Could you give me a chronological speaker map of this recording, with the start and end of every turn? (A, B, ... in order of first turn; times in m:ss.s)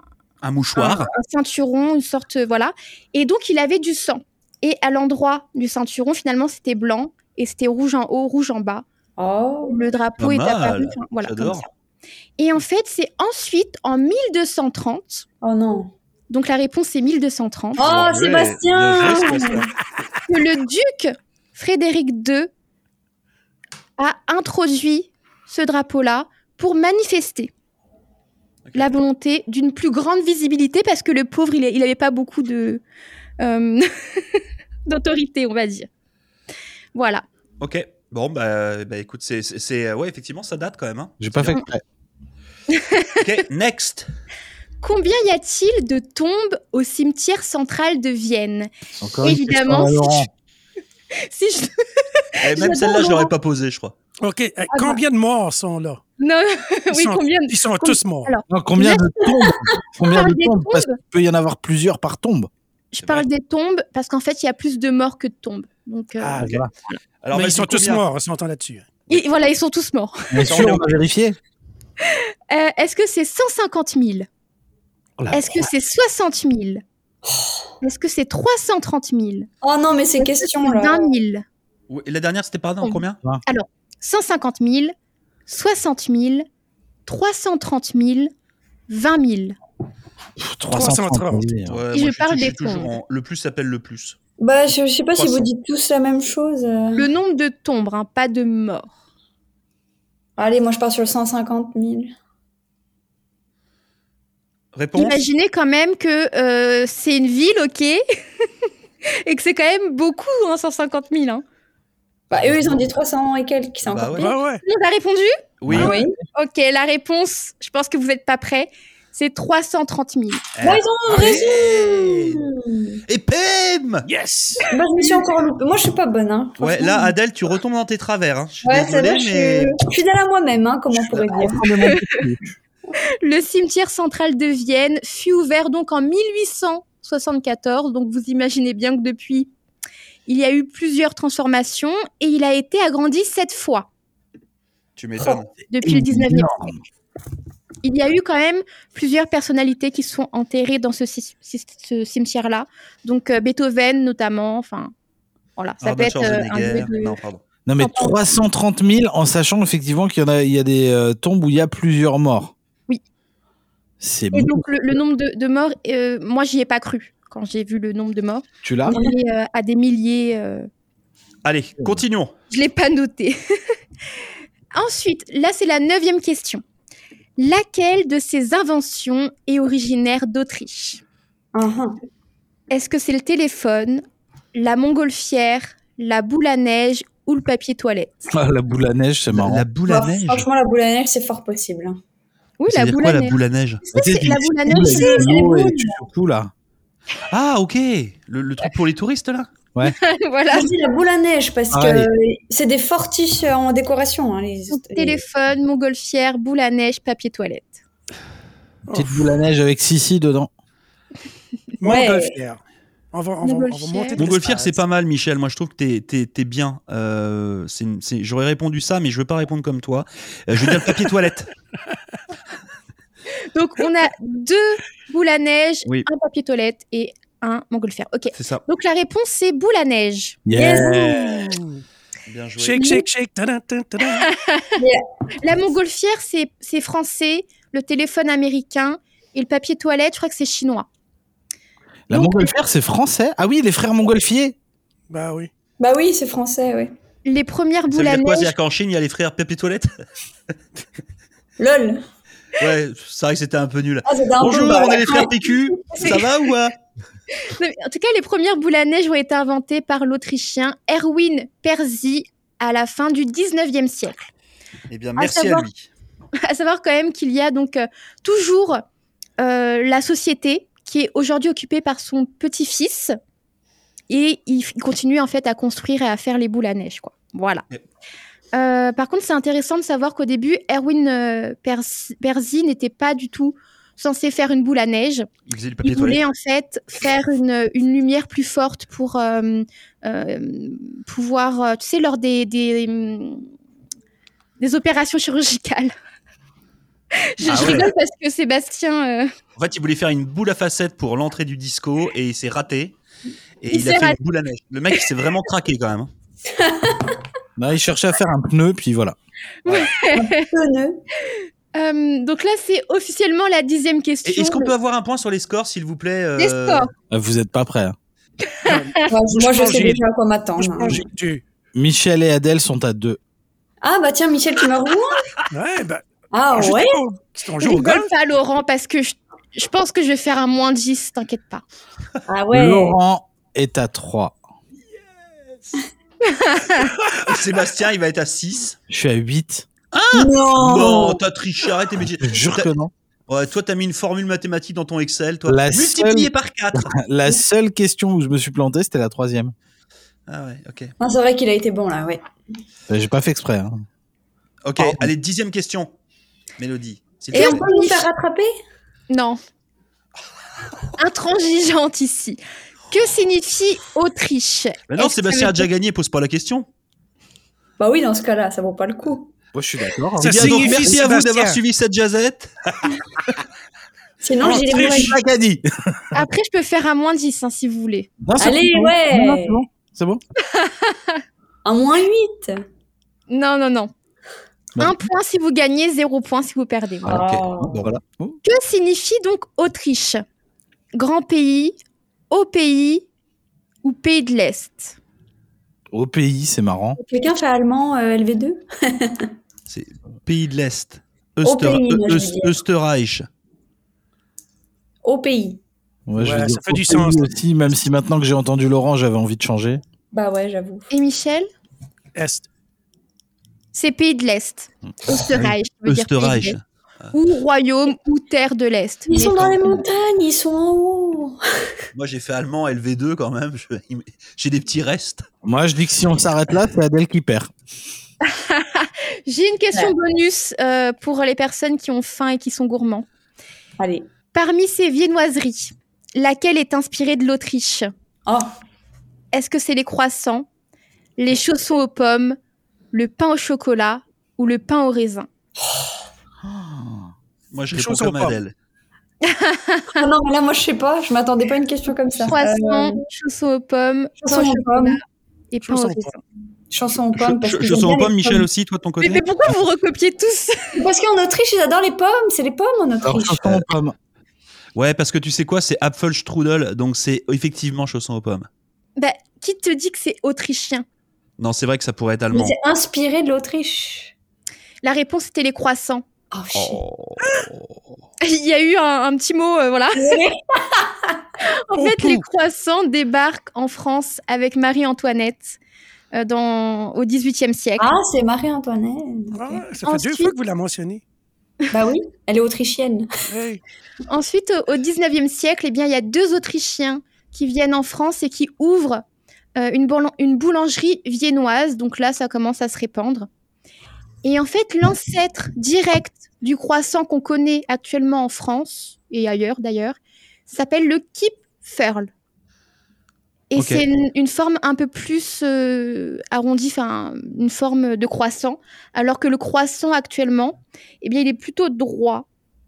0:00.4-0:01.1 A
0:00.7-0:08.8 B
0:09.2-0:09.8 C
0:09.6-0:11.7 B
0:10.2-0:11.6 A
0:12.4-0:15.2 B
0:15.4-0:15.9 C
0:16.3-0:17.8 B
0:17.8-0:19.7 A
0:17.8-0:19.7 C
0:19.0-0:19.6 D
0:20.3-0:22.5 B
0:24.0-0:27.5 B
0:28.6-0:28.9 A
0:28.7-0:32.8 B
0:33.4-0:35.9 B
0:36.9-0:37.2 B
0:37.6-0:41.6 A
0:41.2-0:41.8 E
0:42.7-0:43.2 B
0:43.2-0:44.1 A
0:44.8-0:48.7 B
0:49.0-0:50.3 E
0:49.2-0:50.3 B
0:51.1-0:53.3 B
0:52.4-0:54.0 A
0:54.2-0:56.0 D
0:54.7-0:55.0 B
0:56.2-0:59.2 B
0:56.9-0:58.4 D
0:58.5-1:02.5 E
1:00.0-1:01.0 B
1:02.9-1:07.0 B
1:06.2-1:06.6 D
1:06.4-1:06.7 E
1:07.2-1:08.0 A
1:07.3-1:08.9 D
1:09.1-1:10.3 B
1:10.3-1:11.4 E
1:10.4-1:10.9 A
1:12.0-1:14.3 B
1:15.2-1:15.6 E
1:15.3-1:16.8 B
1:17.3-1:17.6 C
1:17.8-1:19.5 B
1:19.6-1:21.0 C
1:20.2-1:21.4 B
1:21.9-1:23.2 A
1:22.8-1:24.9 B
1:25.5-1:26.4 B
1:27.0-1:28.3 B
1:28.9-1:29.6 B
1:30.4-1:31.8 E
1:30.7-1:31.5 D
1:31.7-1:34.2 A
1:31.9-1:32.9 B
1:34.4-1:37.1 C
1:35.2-1:35.5 A
1:36.9-1:38.9 B
1:40.4-1:42.1 C
1:44.7-1:45.2 A
1:44.9-1:48.0 B
1:49.0-1:51.4 B
1:52.3-1:54.3 C
1:53.8-1:54.3 A
1:54.2-1:54.6 D
1:54.2-2:00.4 B
1:55.6-1:56.0 A
1:55.7-1:55.9 E
1:55.7-1:56.2 C
2:00.6-2:02.4 A
2:00.6-2:03.0 C
2:01.2-2:01.4 D
2:03.1-2:04.0 A
2:04.0-2:04.7 D
2:04.7-2:07.1 C
2:05.0-2:05.2 B
2:06.6-2:09.8 A
2:08.6-2:11.7 C
2:10.9-2:12.6 E
2:13.2-2:19.5 B
2:20.3-2:23.9 B
2:25.0-2:25.5 A
2:25.7-2:26.7 B
2:25.8-2:26.8 E
2:27.8-2:34.9 B
2:35.6-2:37.2 B
2:35.8-2:37.4 A
2:37.6-2:42.5 E
2:37.8-2:38.2 B
2:44.0-2:45.0 E
2:44.3-2:50.7 B
2:48.6-2:49.0 E
2:51.4-2:52.3 A
2:52.5-2:53.4 B
2:54.7-2:56.6 B
2:57.4-3:01.0 B
3:01.5-3:02.0 C
3:02.7-3:08.3 B
3:08.3-3:09.6 E
3:09.3-3:10.5 A
3:09.9-3:12.0 C
3:12.6-3:15.3 B
3:12.7-3:13.8 A
3:13.9-3:16.5 E
3:14.7-3:16.0 C
3:17.3-3:19.5 A
3:19.8-3:20.7 B
3:20.5-3:25.2 C
3:21.7-3:22.1 E
3:24.7-3:27.8 B
3:28.9-3:29.2 D
3:28.9-3:30.5 E
3:31.8-3:32.6 D
3:31.8-3:32.3 C
3:33.1-3:34.8 D
3:33.4-3:34.2 B
3:34.2-3:41.5 A
3:43.5-3:50.4 B
3:48.3-3:48.6 A
3:50.4-3:51.4 E
3:50.5-3:51.5 C
3:51.5-3:51.8 D
3:52.3-3:52.9 A
3:52.6-3:54.3 D
3:52.7-3:53.0 B
3:54.0-3:54.8 B
3:55.4-4:00.9 B
4:02.1-4:04.6 E
4:02.1-4:02.5 B
4:05.1-4:05.5 D
4:05.8-4:06.9 C
4:07.2-4:08.5 B
4:07.9-4:09.9 A
4:11.6-4:12.0 C
4:12.6-4:16.7 A
4:14.0-4:16.1 C
4:15.9-4:16.3 B
4:17.3-4:24.3 B
4:24.9-4:25.9 A
4:25.2-4:25.7 B
4:26.4-4:28.8 B
4:29.4-4:33.2 B
4:34.1-4:37.6 B
4:38.5-4:45.3 B
4:45.4-4:46.2 A
4:45.8-4:53.5 B
4:54.6-4:55.9 B
4:57.1-4:59.3 B
4:57.4-4:57.9 A
4:59.6-5:03.0 A
5:03.6-5:06.1 A
5:03.7-5:04.2 B
5:06.4-5:07.2 C
5:07.6-5:09.2 E
5:09.6-5:10.5 B
5:10.1-5:11.0 C
5:11.2-5:14.7 B
5:14.2-5:16.9 A
5:16.4-5:16.9 B
5:17.1-5:18.0 E
5:18.6-5:20.0 D
5:19.1-5:21.0 C
5:20.6-5:21.4 D
5:21.7-5:23.2 E
5:23.8-5:25.3 C
5:25.5-5:28.1 D
5:26.3-5:27.0 C
5:27.6-5:31.6 B
5:32.3-5:32.9 C
5:32.5-5:34.4 E
5:36.3-5:36.9 B
5:37.2-5:38.8 A
5:38.9-5:39.6 E
5:39.9-5:42.7 A
5:40.1-5:41.2 C
5:42.2-5:42.9 E
5:43.3-5:46.9 A
5:45.5-5:49.5 E
5:50.3-5:50.9 A
5:51.0-5:52.2 C
5:52.9-5:53.8 E
5:54.6-5:55.9 A
5:54.8-5:55.1 E
5:56.6-5:57.6 A
5:57.3-5:58.5 C
5:57.3-5:58.0 B
5:59.1-5:59.4 B
6:01.0-6:02.4 B
6:02.9-6:05.7 B
6:04.9-6:06.7 A
6:07.8-6:09.3 C
6:09.5-6:10.8 E
6:10.2-6:11.6 D
6:10.2-6:13.0 A
6:14.2-6:15.2 C
6:14.4-6:15.2 D
6:14.4-6:16.2 E
6:16.1-6:18.1 B
6:18.2-6:20.2 E
6:18.4-6:19.6 C
6:20.4-6:21.2 B
6:21.6-6:22.6 C
6:23.3-6:23.9 B
6:24.8-6:25.0 E
6:24.8-6:27.2 B
6:27.0-6:27.9 C
6:27.1-6:28.0 A
6:27.7-6:28.4 E
6:28.4-6:30.2 B
6:30.9-6:31.7 B
6:32.3-6:33.0 B
6:33.8-6:35.0 B
6:35.9-6:37.0 E
6:37.0-6:39.3 C
6:39.7-6:43.3 A
6:41.4-6:42.6 C
6:45.0-6:45.6 C
6:46.1-6:49.8 E
6:46.2-6:47.3 D
6:50.1-6:50.9 C
6:50.9-6:51.5 B
6:52.1-6:52.5 D
6:53.7-6:56.6 B
6:55.9-6:57.1 A
6:57.1-6:59.8 B
6:59.1-7:01.4 C
7:01.9-7:05.2 A
7:05.4-7:07.5 E
7:08.2-7:13.0 B
7:13.8-7:14.1 C
7:14.3-7:17.9 B
7:18.2-7:18.5 C
7:19.3-7:20.5 B
7:21.2-7:22.4 B
7:22.9-7:25.3 B
7:26.4-7:27.1 E
7:27.5-7:28.5 A
7:27.7-7:28.4 D
7:29.2-7:30.0 B
7:29.9-7:33.0 C
7:32.2-7:36.2 B
7:34.2-7:35.0 C
7:35.6-7:36.1 D
7:36.7-7:38.5 C
7:37.2-7:39.5 A
7:39.0-7:40.8 B
7:40.8-7:43.6 C
7:43.0-7:44.0 E
7:44.7-7:48.5 A
7:49.0-7:50.8 B
7:51.4-7:52.6 A
7:52.3-7:54.1 C
7:54.8-7:56.0 B
7:56.3-7:56.8 C
7:56.5-7:57.8 A
7:57.2-7:57.5 D
7:58.2-8:00.2 B
7:59.9-8:01.2 C
8:01.4-8:05.6 B
8:01.7-8:02.2 D
8:06.1-8:07.9 B
8:07.8-8:09.6 C
8:09.3-8:11.0 D
8:09.8-8:10.3 B
8:11.7-8:13.1 C
8:13.3-8:13.6 D
8:14.1-8:19.0 B
8:19.6-8:23.3 B
8:24.2-8:32.1 B
8:33.5-8:42.2 B
8:33.6-8:33.8 A